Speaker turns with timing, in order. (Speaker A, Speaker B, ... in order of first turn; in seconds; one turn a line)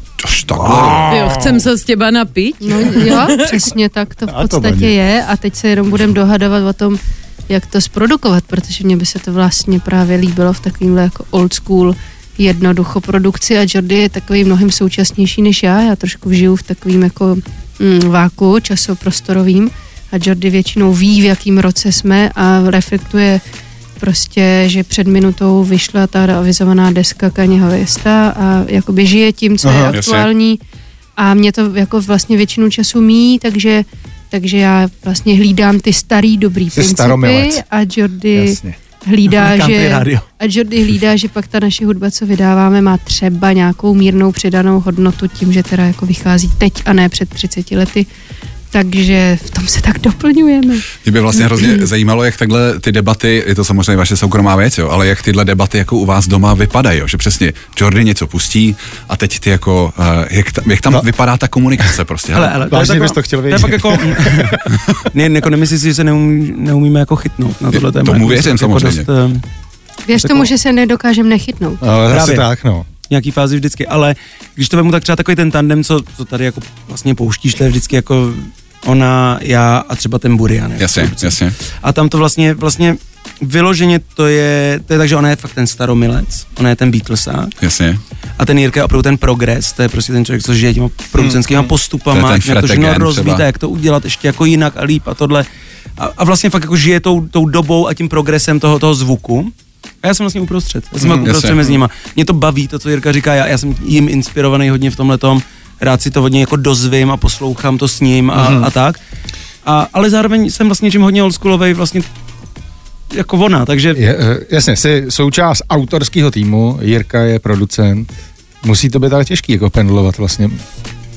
Speaker A: 0.2-1.1
Speaker B: 0.6-1.6
Speaker C: 1.0-3.6
Speaker D: 2.6-23.4
Speaker B: 4.3-5.0
Speaker D: 24.0-30.6
Speaker B: 29.6-29.9
Speaker A: 29.9-30.3
Speaker D: 31.2-48.1
Speaker B: 36.7-37.6
Speaker B: 38.3-38.8
Speaker E: 39.3-40.3
Speaker D: 48.7-50.9
Speaker A: 51.0-62.6
Speaker E: 62.3-69.4
Speaker B: 62.7-64.6
Speaker A: 67.7-69.1
Speaker D: 70.1-71.8
Speaker E: 70.2-70.5
Speaker B: 71.8-72.9
Speaker E: 72.1-72.5
Speaker E: 73.1-87.5
Speaker A: 80.8-81.6
Speaker A: 87.6-88.0
Speaker E: 88.4-95.5
Speaker B: 91.3-91.6
Speaker A: 92.1-93.5
Speaker E: 96.0-109.0
Speaker B: 101.0-101.3
Speaker A: 101.2-101.8
Speaker B: 108.3-108.7
Speaker E: 109.6-112.1
Speaker E: 113.1-114.0
Speaker B: 113.9-118.1
Speaker B: 118.6-120.6